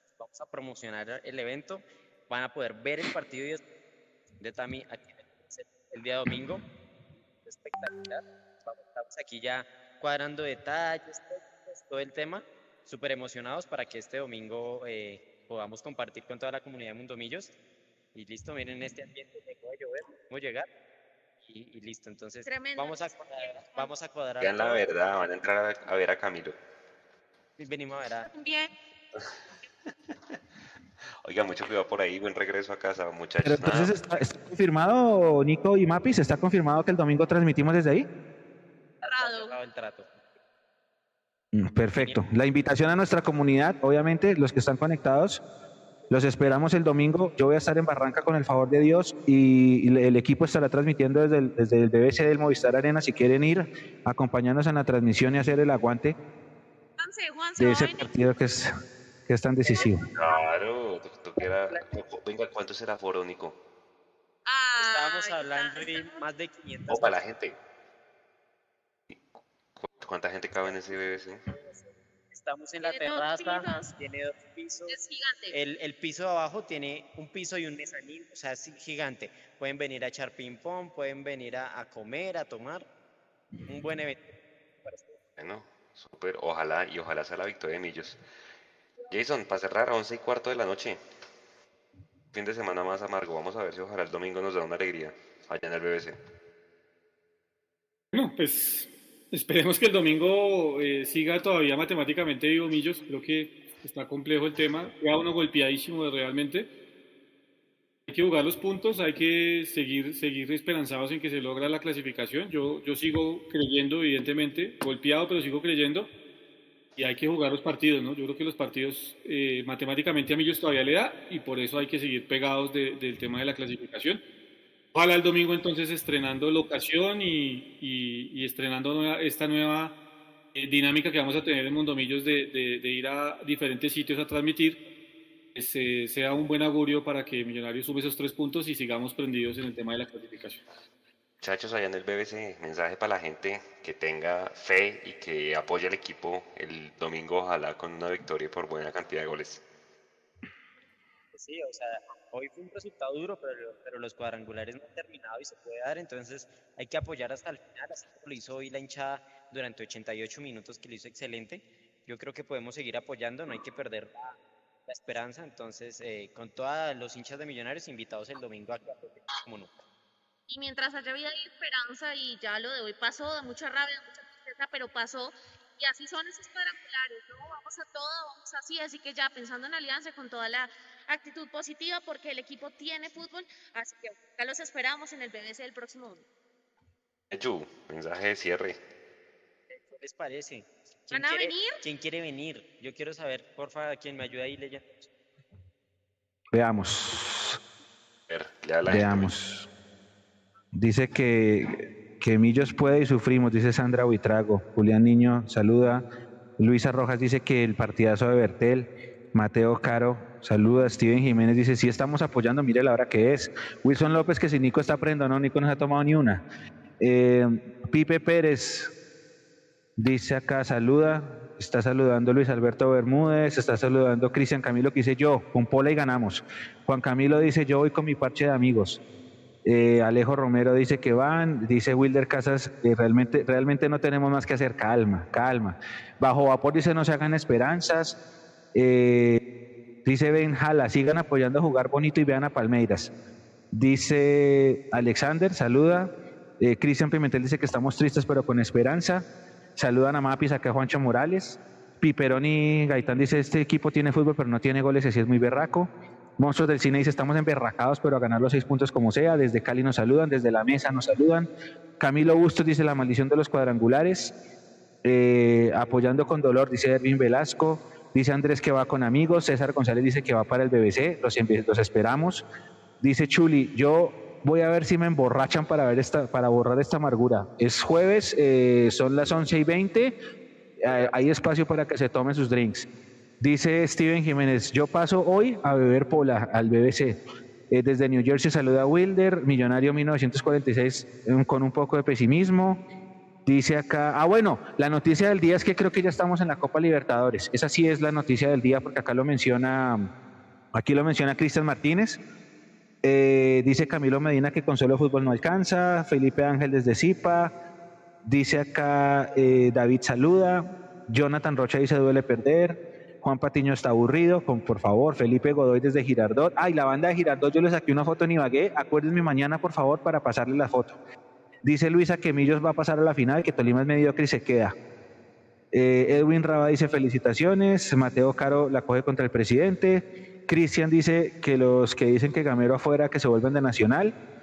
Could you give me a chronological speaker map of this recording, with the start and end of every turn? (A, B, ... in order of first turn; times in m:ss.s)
0:00.2-0:03.6 A
0:04.4-0:06.6 A
0:07.4-0:17.5 A
0:18.1-0:20.7 A
0:21.4-0:24.8 A
0:22.4-0:23.9 B
0:24.4-0:26.6 C
0:27.6-0:28.3 A
0:28.2-0:28.7 B
0:29.2-0:30.1 C
0:31.2-0:33.9 C
0:33.4-0:38.1 D
0:39.0-0:40.1 A
0:39.0-0:39.6 B
0:41.5-0:45.4 D
0:42.0-0:42.2 A
0:46.1-0:56.2 D
0:57.0-0:58.3 B
0:57.6-0:58.7 D
0:59.3-1:00.0 D
1:00.1-1:03.6 C
1:04.4-1:06.2 B
1:04.8-1:07.1 A
1:06.9-1:07.6 C
1:09.8-1:11.4 C
1:11.6-1:15.0 A
1:12.8-1:13.9 B
1:14.9-1:15.6 B
1:15.5-1:22.9 A
1:23.7-1:25.2 A
1:25.4-1:28.2 C
1:29.1-1:31.0 C
1:32.3-1:36.2 C
1:38.1-1:46.7 E
1:48.1-1:56.1 E
1:57.0-2:04.2 E
2:04.9-2:10.0 E
2:10.5-2:14.8 E
2:15.5-2:20.6 E
2:21.4-2:29.6 C
2:31.3-2:49.7 A
2:50.5-3:06.2 B
3:07.3-3:08.8 C
3:09.7-3:15.1 A
3:11.1-3:11.8 B
3:16.5-3:17.6 D
3:18.3-3:19.3 C
3:18.8-3:19.7 D
3:20.7-3:26.0 D
3:26.6-3:36.4 D
3:37.0-3:38.9 D
3:40.0-3:49.0 D
3:49.6-3:58.2 D
3:58.7-3:59.4 D
4:00.0-4:03.1 D
4:03.7-4:24.3 D
4:25.0-4:32.4 D
4:33.0-4:40.1 D
4:40.8-4:42.9 D
4:43.4-4:47.2 D
4:47.7-4:52.8 D
4:53.4-5:00.1 D
5:00.7-5:02.2 D
5:03.0-5:07.5 D
5:08.2-5:21.0 D
5:21.6-5:24.7 D
5:25.7-5:34.1 D